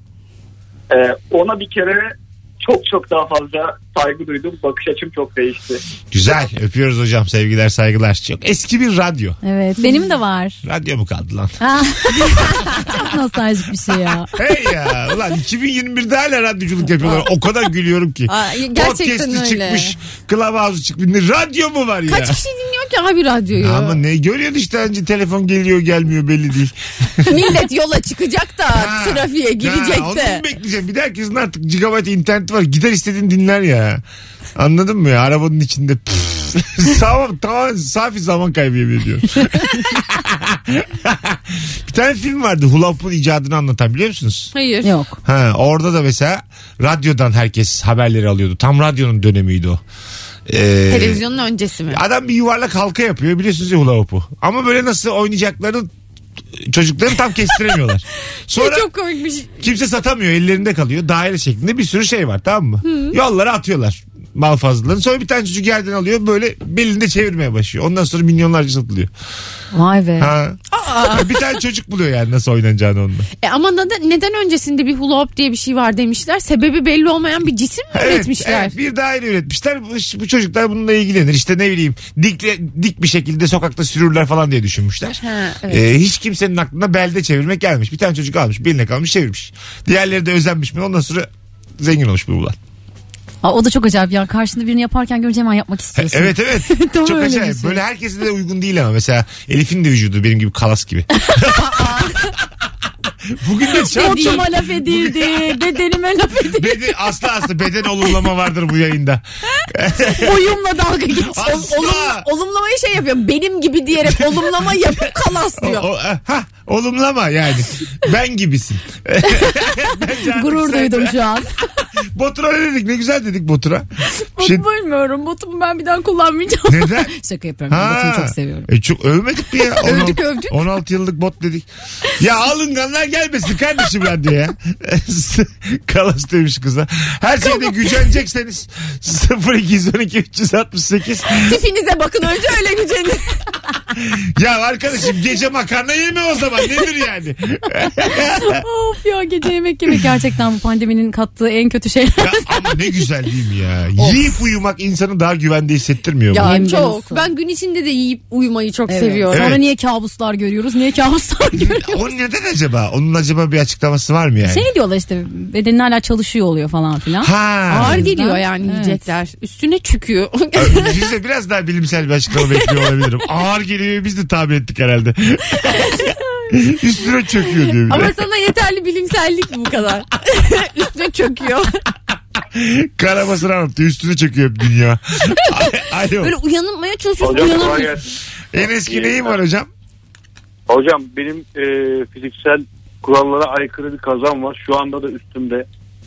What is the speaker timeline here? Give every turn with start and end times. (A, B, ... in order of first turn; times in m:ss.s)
0:00.9-0:05.8 A
0:06.1-0:09.4 B
0:09.4-0:10.6 C
0:10.6-0:11.6 B
0:11.6-0:14.3 C
0:14.3-0:22.4 B
0:18.3-0:19.9 D
0:22.1-0:24.0 D
0:23.6-0:27.4 B
0:27.2-0:30.4 D
0:28.7-0:34.0 B
0:34.6-0:44.5 B
0:44.5-0:44.9 D
0:44.8-0:45.2 C
0:45.2-0:49.8 B
0:50.5-0:51.2 B
0:50.9-0:52.0 D
0:51.9-0:55.9 B
0:56.5-0:58.9 B
0:58.5-0:59.5 D
0:59.6-1:09.1 B
1:02.8-1:03.2 D
1:09.7-1:10.3 C
1:10.2-1:13.3 B
1:10.7-1:11.6 D
1:13.4-1:18.7 D
1:17.9-1:32.6 B
1:25.2-1:25.9 D
1:33.4-1:37.8 C
1:36.0-1:41.2 B
1:41.4-1:42.3 D
1:43.4-1:45.5 B
1:43.8-1:46.9 C
1:43.8-1:44.5 D
1:46.5-1:50.3 B
1:50.1-1:51.7 C
1:51.3-1:52.2 B
1:51.4-1:55.9 D
1:55.6-2:01.2 B
1:59.3-1:59.6 C
2:00.1-2:01.5 C
2:02.1-2:03.9 B
2:04.2-2:08.7 C
2:04.4-2:04.6 B
2:06.7-2:07.1 B
2:07.7-2:11.7 B
2:09.8-2:10.6 D
2:12.2-2:21.6 B
2:21.3-2:23.4 D
2:24.0-2:28.6 B
2:28.4-2:32.9 C
2:32.2-2:36.5 B
2:34.0-2:34.3 C
2:36.3-2:39.6 D
2:36.3-2:37.3 C
2:38.9-2:42.1 C
2:39.3-2:39.6 B
2:41.6-2:44.7 B
2:44.4-2:49.0 C
2:47.2-2:48.1 B
2:47.7-2:51.0 D
2:50.6-2:55.9 B
2:56.5-2:58.1 B
2:57.9-3:01.8 D
3:02.5-3:06.3 B
3:06.2-3:08.0 D
3:07.2-3:08.0 E
3:08.5-3:09.7 B
3:08.6-3:09.3 E
3:10.7-3:15.7 E